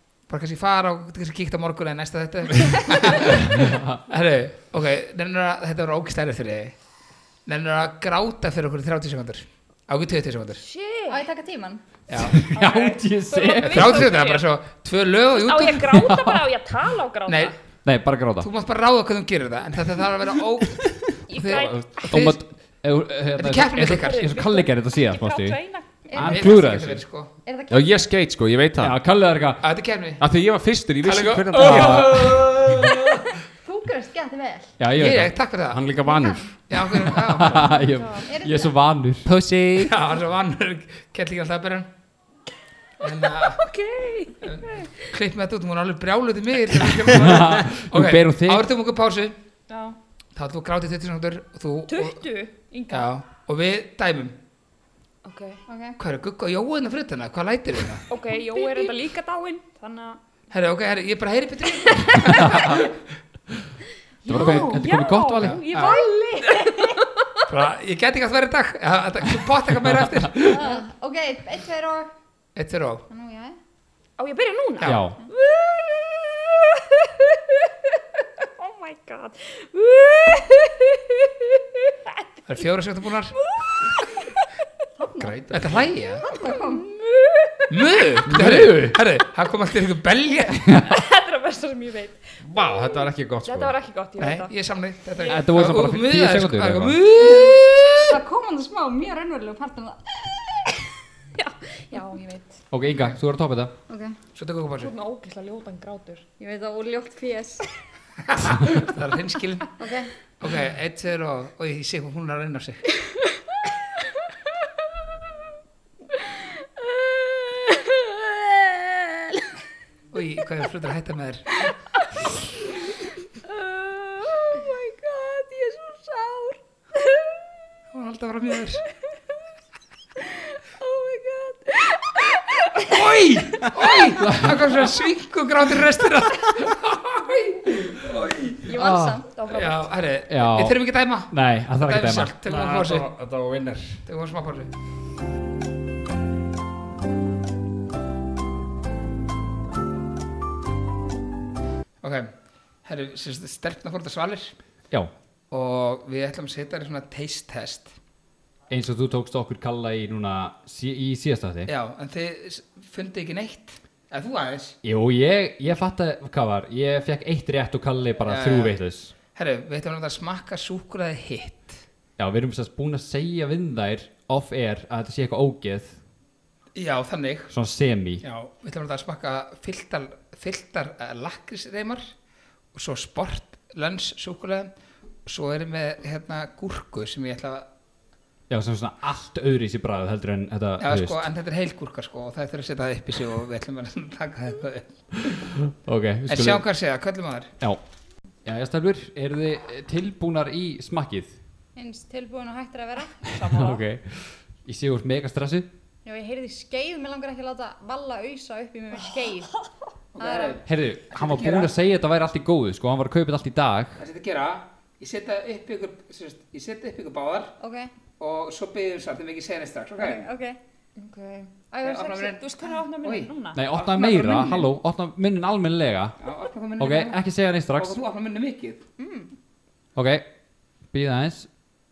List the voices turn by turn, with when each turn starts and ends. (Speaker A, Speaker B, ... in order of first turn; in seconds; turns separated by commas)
Speaker A: 0.3-6.7, Speaker A: 7.5-10.6, Speaker B: 10.6-11.2, Speaker C: 11.1-11.8, Speaker A: 12.1-12.5, Speaker D: 12.2-14.1, Speaker B: 12.6-14.5, Speaker A: 13.6-15.9, Speaker B: 15.3-17.5, Speaker D: 15.9-16.4, Speaker A: 17.3-17.6, Speaker D: 17.8-18.5, Speaker A: 18.4-22.4, Speaker B: 21.3-22.1, Speaker D: 22.1-25.6, Speaker A: 23.4-24.3, Speaker B: 23.8-25.9, Speaker C: 26.1-26.6, Speaker D: 26.1-27.0, Speaker A: 26.1-27.3, Speaker C: 27.4-28.1, Speaker E: 27.7-28.9, Speaker D: 28.8-29.6, Speaker A: 29.6-30.2, Speaker E: 30.2-32.9, Speaker A: 31.0-33.2, Speaker D: 31.5-32.4, Speaker C: 33.6-34.7, Speaker D: 34.8-35.3, Speaker A: 34.9-35.9, Speaker E: 35.7-36.5, Speaker C: 36.0-36.5, Speaker A: 36.7-37.7, Speaker D: 37.0-39.3, Speaker B: 37.7-38.3, Speaker C: 38.3-38.7, Speaker E: 39.2-39.9, Speaker A: 39.8-41.9, Speaker A: 43.0-43.6, Speaker B: 43.5-45.1, Speaker A: 44.4-49.4, Speaker D: 47.0-48.7, Speaker B: 49.7-50.0, Speaker A: 50.3-52.2, Speaker B: 51.9-53.1, Speaker A: 52.9-54.4, Speaker B: 55.2-55.6, Speaker C: 55.7-56.0, Speaker A: 56.0-58.1, Speaker B: 58.1-60.2, Speaker C: 58.5-58.9, Speaker A: 60.5-63.0, Speaker B: 61.8-62.7, Speaker D: 62.4-62.7, Speaker D: 64.2-65.6, Speaker C: 64.3-64.8, Speaker B: 64.3-67.4, Speaker A: 65.4-66.0, Speaker C: 66.4-67.0, Speaker A: 67.5-70.7, Speaker B: 70.5-70.8, Speaker C: 70.5-72.1, Speaker A: 72.5-73.0, Speaker C: 73.1-73.6, Speaker B: 74.2-77.7, Speaker A: 74.8-75.1, Speaker D: 74.8-75.2, Speaker B: 78.4-82.6, Speaker A: 82.5-83.3, Speaker B: 83.3-84.3, Speaker C: 85.0-85.5, Speaker E: 85.2-85.8, Speaker A: 85.5-86.3, Speaker C: 86.2-86.8, Speaker B: 86.2-88.2, Speaker A: 87.7-90.8, Speaker D: 88.2-89.0, Speaker B: 90.8-94.5, Speaker E: 92.4-93.7, Speaker A: 94.2-98.2, Speaker B: 95.1-95.4, Speaker D: 95.2-97.0, Speaker C: 97.2-100.7, Speaker B: 101.4-102.5, Speaker D: 102.7-103.7, Speaker C: 103.9-104.2, Speaker A: 104.3-104.9, Speaker B: 104.8-106.2, Speaker C: 106.4-107.7, Speaker A: 108.2-109.7, Speaker C: 109.8-110.1, Speaker A: 110.4-112.8, Speaker C: 116.8-119.5, Speaker A: 120.1-121.7, Speaker C: 123.4-126.6, Speaker A: 127.9-128.8, Speaker C: 130.3-132.9, Speaker A: 132.8-138.7, Speaker D: 134.2-134.6, Speaker C: 138.7-139.3, Speaker D: 138.7-139.2, Speaker B: 139.3-139.9, Speaker A: 139.4-143.1, Speaker D: 140.3-142.3, Speaker E: 142.4-144.0, Speaker A: 144.1-144.7, Speaker A: 152.0-154.5, Speaker A: 155.5-157.9, Speaker D: 158.7-161.7, Speaker A: 161.7-164.8, Speaker D: 164.8-169.1, Speaker A: 168.2-168.8, Speaker A: 169.3-171.8, Speaker D: 172.2-176.0, Speaker A: 176.7-177.5, Speaker D: 177.5-178.2, Speaker A: 178.2-182.1, Speaker A: 182.7-184.7, Speaker A: 185.2-187.7, Speaker D: 188.5-191.3, Speaker A: 190.8-195.4, Speaker D: 195.7-196.7, Speaker A: 196.3-197.5, Speaker D: 198.4-201.3, Speaker C: 201.8-203.2, Speaker B: 203.2-203.8, Speaker D: 203.4-205.7, Speaker C: 206.0-209.5, Speaker A: 210.1-211.8, Speaker C: 210.2-210.6, Speaker D: 210.7-214.0, Speaker A: 214.0-217.5, Speaker C: 217.6-217.9, Speaker A: 218.2-220.3, Speaker C: 219.9-220.6, Speaker B: 220.9-221.5, Speaker C: 221.7-222.4, Speaker A: 221.8-222.4, Speaker B: 222.2-223.6, Speaker A: 222.9-224.7, Speaker D: 223.5-226.2, Speaker A: 226.2-228.8, Speaker D: 226.8-228.0, Speaker C: 229.0-229.3, Speaker D: 229.9-230.3, Speaker D: 230.9-231.5